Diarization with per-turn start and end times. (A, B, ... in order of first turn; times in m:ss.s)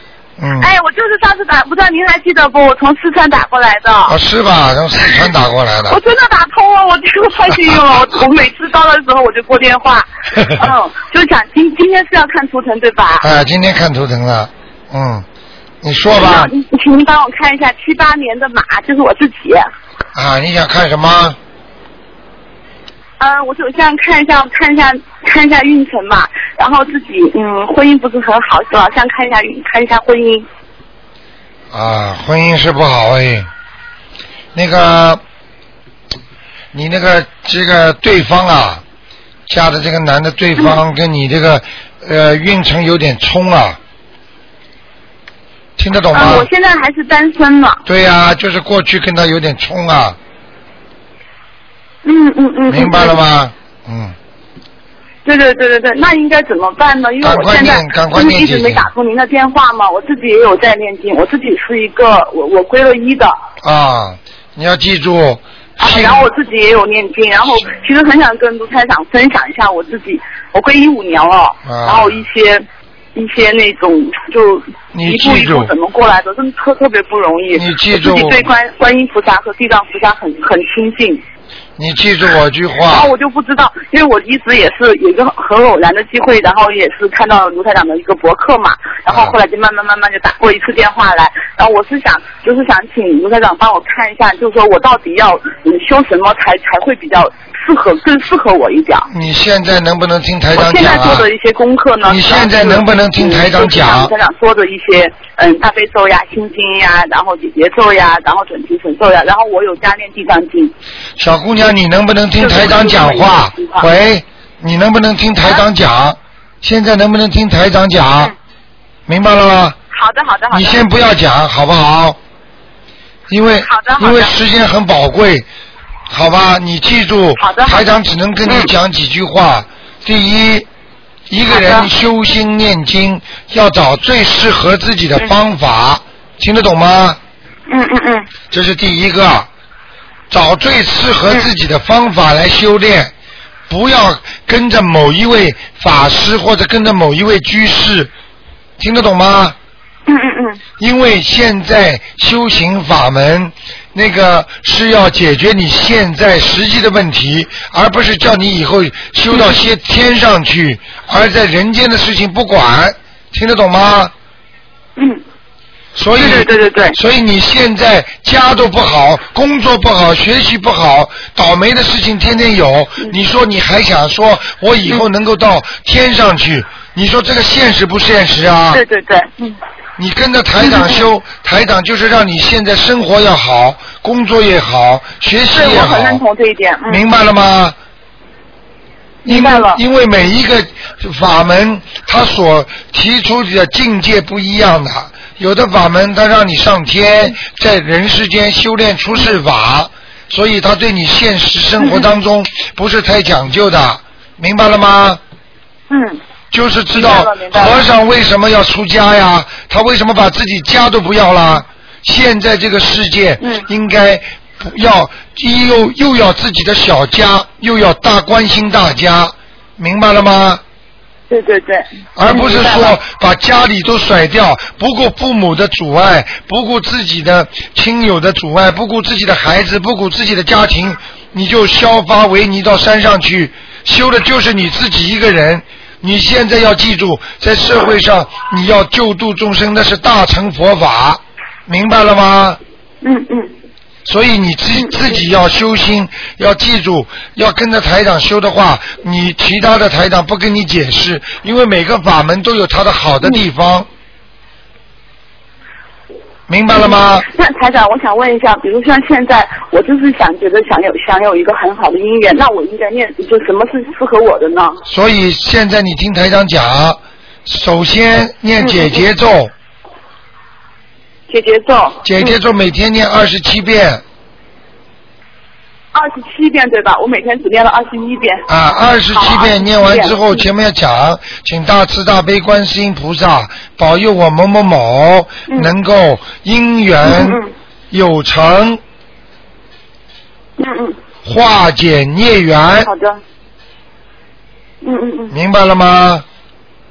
0:00.4-0:00.7 A
0:00.6-0:04.1 B
0:04.0-0:06.0 A
0:05.9-0:13.3 B
0:13.2-0:15.2 A
0:15.8-0:16.5 A
0:16.1-0:19.7 B
0:20.1-0:21.4 A
0:23.2-0:30.4 B
0:31.7-0:33.5 A
0:34.5-0:35.2 A
0:36.7-0:38.8 A
0:39.5-0:43.8 A
0:45.8-0:46.5 A
0:46.1-0:47.8 B
0:47.8-0:50.2 A
0:52.0-0:53.2 B
0:52.7-0:54.2 A
0:55.2-1:03.4 B
0:57.2-0:58.9 A
1:03.6-1:06.3 A
1:05.8-1:21.2 B
1:11.6-1:12.2 A
1:14.9-1:15.7 A
1:17.5-1:18.5 A
1:21.8-1:23.1 A
1:22.9-1:39.1 B
1:29.1-1:29.4 A
1:39.1-1:41.3 A
1:40.5-1:50.7 B
1:42.0-1:44.1 A
1:51.2-1:58.3 A
1:52.4-1:53.9 B
1:59.1-1:59.8 A
1:59.9-2:00.8 B
2:00.5-2:02.2 A
2:03.3-2:05.5 A
2:03.6-2:04.3 B
2:06.1-2:10.7 A
2:07.4-2:07.9 B
2:08.4-2:08.7 B
2:11.3-2:17.2 A
2:11.5-2:11.9 B
2:17.7-2:18.3 B
2:18.5-2:19.5 A
2:20.3-2:23.1 A
2:23.7-2:28.1 A
2:28.8-2:29.6 A
2:30.1-2:30.6 B
2:30.8-2:44.1 A
2:39.3-2:39.6 B
2:45.0-2:45.2 B
2:46.0-2:58.8 A
2:46.2-2:47.0 B
2:58.7-2:59.6 B
3:00.0-3:06.2 A
3:00.6-3:01.0 B
3:05.5-3:07.0 B
3:06.9-3:07.8 A
3:09.2-3:09.8 B
3:09.2-3:25.2 A
3:21.8-3:22.1 B
3:25.9-3:26.2 B
3:26.5-3:40.6 A
3:26.9-3:27.9 B
3:33.4-3:33.7 B
3:41.3-3:43.0 B
3:42.2-4:02.6 A
4:03.0-4:03.5 B
4:04.0-4:13.9 A
4:04.8-4:05.2 B
4:16.5-4:17.3 A
4:16.8-4:24.8 B
4:24.9-4:29.5 A
4:28.6-4:29.0 B
4:31.3-4:32.4 B
4:32.0-4:34.0 A
4:35.9-4:38.4 B
4:38.5-4:48.8 A
4:39.1-4:40.4 B
4:47.0-4:47.5 B
4:50.6-4:51.0 B
4:51.2-4:52.9 A
4:52.8-4:53.2 B
4:54.8-4:55.3 B
4:55.3-4:56.2 A